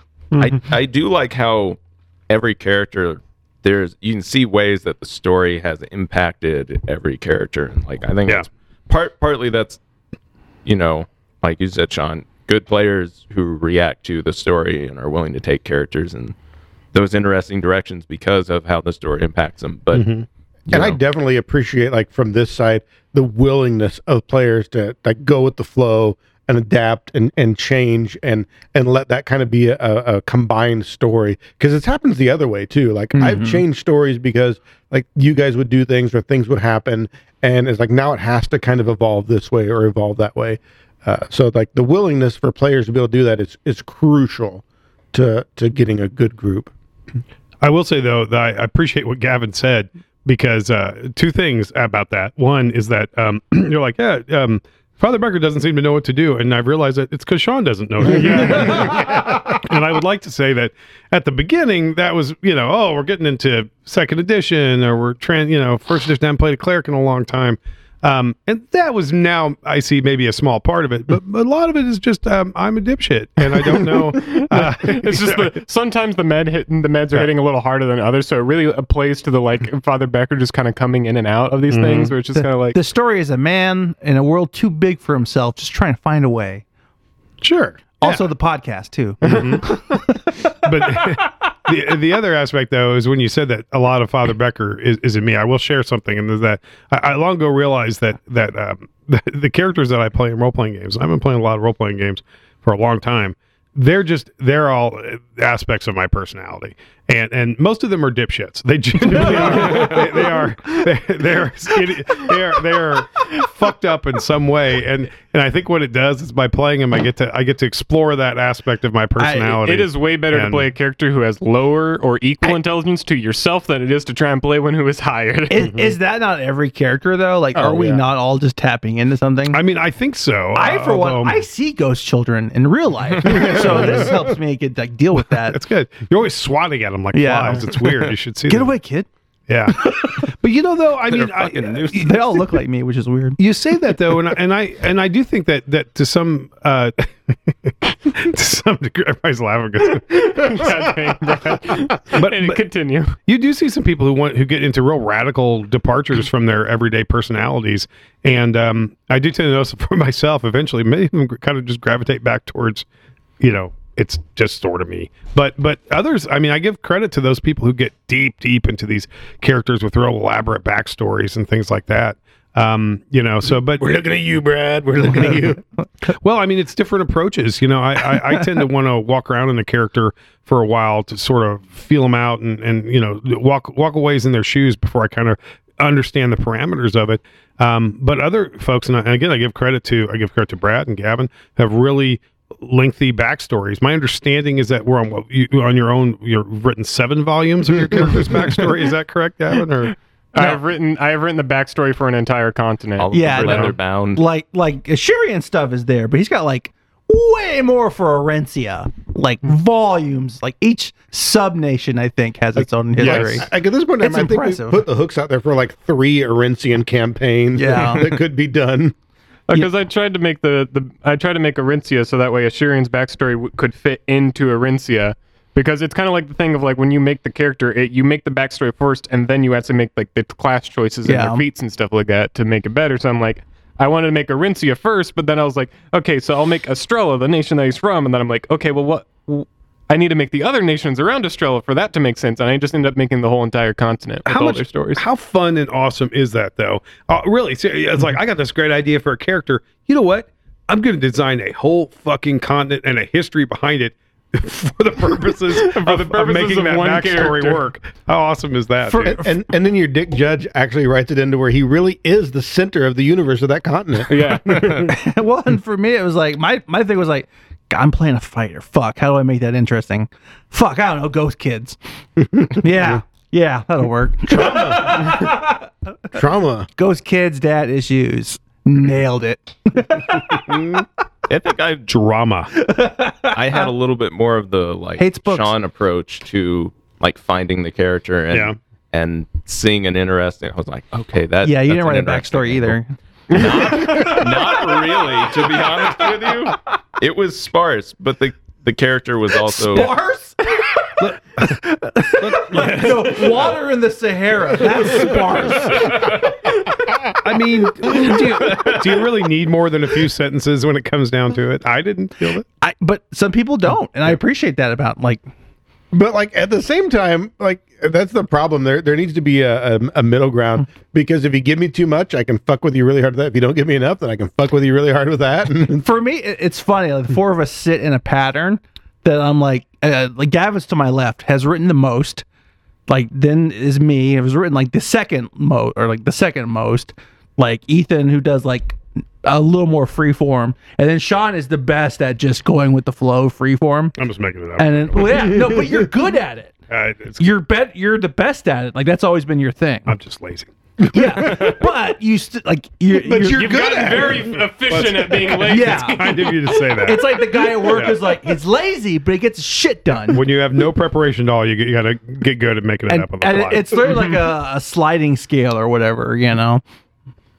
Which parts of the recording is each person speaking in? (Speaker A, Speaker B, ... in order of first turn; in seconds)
Speaker A: 0.4-9.8, 10.6-16.3, 16.9-20.1, 20.7-21.0, 141.1-142.4, 203.0-204.2, 281.3-281.9, 283.3-292.8, 293.3-299.9
Speaker B: 19.9-20.2, 47.6-75.6, 81.7-82.1, 87.4-88.3, 89.2-120.7, 125.7-125.9, 129.5-131.4, 133.5-134.0, 135.2-138.7, 139.5-141.7, 143.4-150.9, 152.1-152.7, 153.2-162.8, 163.4-174.0, 176.2-199.9, 203.4-203.7, 213.0-213.4, 244.2-259.2, 281.9-282.5, 288.3-288.6, 301.0-303.5, 305.9-306.1, 307.0-312.4, 343.9-345.4, 346.7-347.3, 349.9-351.6, 353.4-358.3, 360.1-364.0
Speaker C: 20.7-44.6, 45.1-46.7, 127.5-128.0, 173.8-175.6, 212.6-218.9, 259.0-264.8, 274.3-275.4, 276.1-276.7, 315.9-325.8, 345.3-345.6, 352.9-354.4
Speaker D: 33.1-33.6, 82.3-86.6, 88.0-91.1, 109.3-110.1, 119.2-119.5, 125.5-129.6, 130.5-135.6, 137.1-137.9, 138.5-139.1, 141.9-143.4, 203.1-214.8, 217.5-218.1, 231.1-231.4, 258.8-259.3, 264.8-271.8, 272.4-275.7, 276.8-280.8, 282.6-283.7, 285.0-285.6, 291.4-295.0, 299.6-306.3, 312.6-315.2, 325.7-332.2, 332.9-344.0, 344.6-346.5, 347.2-349.9, 350.9-353.9, 355.4-360.3, 362.9-366.6
Speaker E: 74.2-82.8, 119.6-125.6, 150.1-153.1, 200.3-203.7, 219.5-245.0, 255.5-257.6, 264.1-264.9, 353.4-356.2